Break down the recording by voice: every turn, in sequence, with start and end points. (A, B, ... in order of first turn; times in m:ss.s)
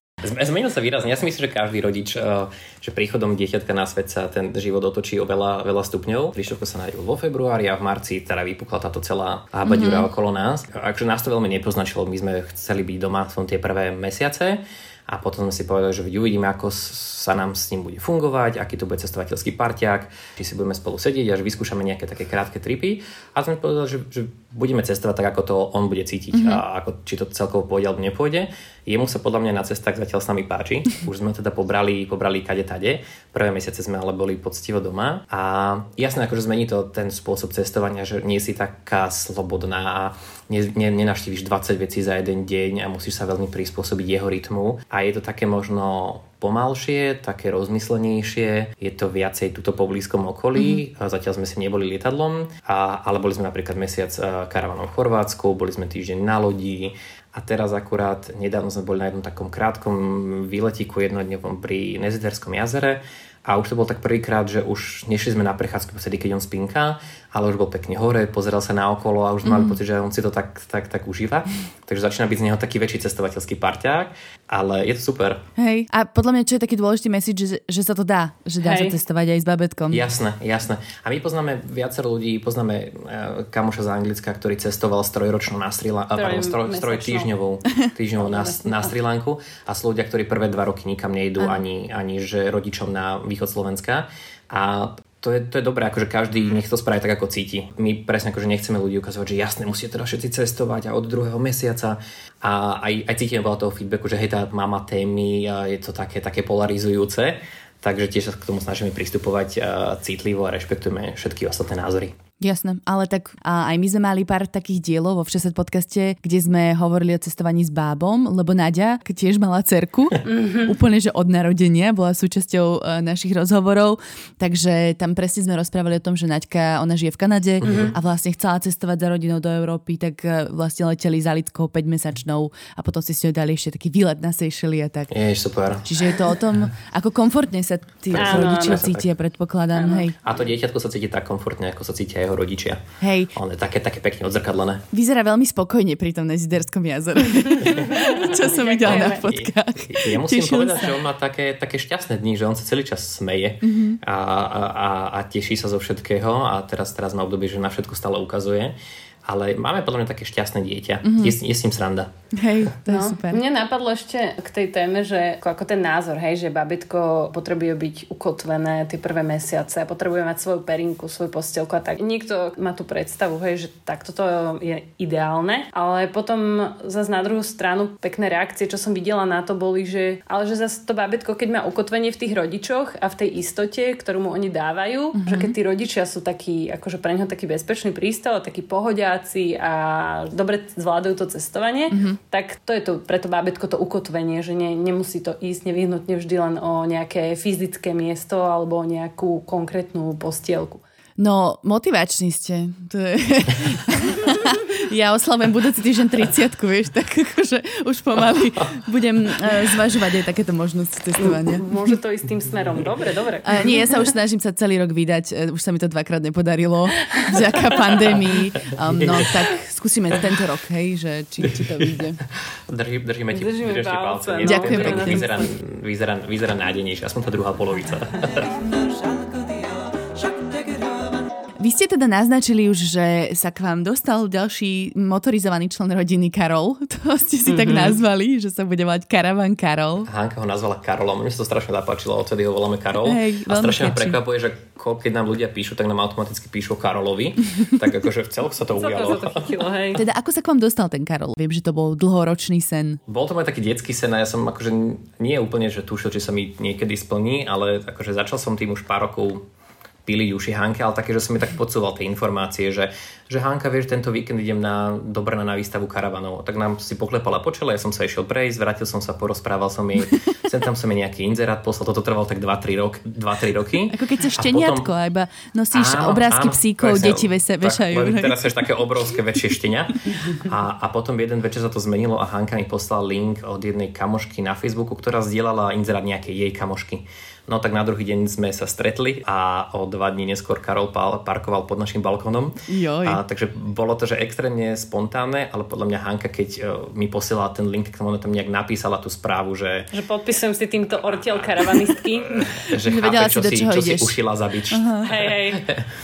0:00.2-1:15.4 A
0:09.6-0:10.1 B
0:26.3-0:26.6 B
1:09.4-1:09.8 B
1:15.6-1:20.1 B
1:18.6-1:19.0 C
1:19.9-1:52.2 A
1:26.1-1:27.3 C
1:28.2-1:28.9 C
1:52.4-2:15.1 B
2:00.2-2:00.7 C
2:07.6-2:08.0 A
2:07.6-2:07.9 C
2:15.1-2:16.2 A
2:15.8-2:20.2 B
2:18.1-2:19.1 A
2:18.2-2:18.8 C
2:19.7-2:20.1 C
2:20.2-2:22.8 A
2:23.0-2:23.3 B
2:23.4-2:24.8 A
2:24.9-2:30.9 B
2:27.6-2:29.3 C
2:28.8-2:38.7 A
2:33.6-2:34.0 B
2:39.3-2:42.1 A
2:41.0-2:41.4 B
2:42.3-2:43.4 B
2:42.9-3:20.8 C
3:05.2-3:05.5 B
3:11.9-3:12.2 B
3:21.2-3:31.7 B
3:31.2-3:33.8 C
3:33.4-3:42.2 B
3:37.1-3:38.1 C
3:39.0-3:39.3 A
3:42.7-3:48.6 A
3:43.3-3:45.5 C
3:44.4-3:45.3 B
3:51.6-4:00.1 B
4:00.1-4:09.6 A
4:03.0-4:04.2 B
4:08.8-4:10.0 C
4:10.0-4:13.0 B
4:13.1-4:19.4 A
4:20.1-4:34.9 A
4:33.9-4:38.4 B
4:35.7-4:59.9 A
4:52.7-4:53.2 B
4:59.9-5:02.5 C
5:01.0-5:05.8 A
5:02.8-5:04.2 B
5:04.7-5:05.1 B
5:05.0-5:05.6 C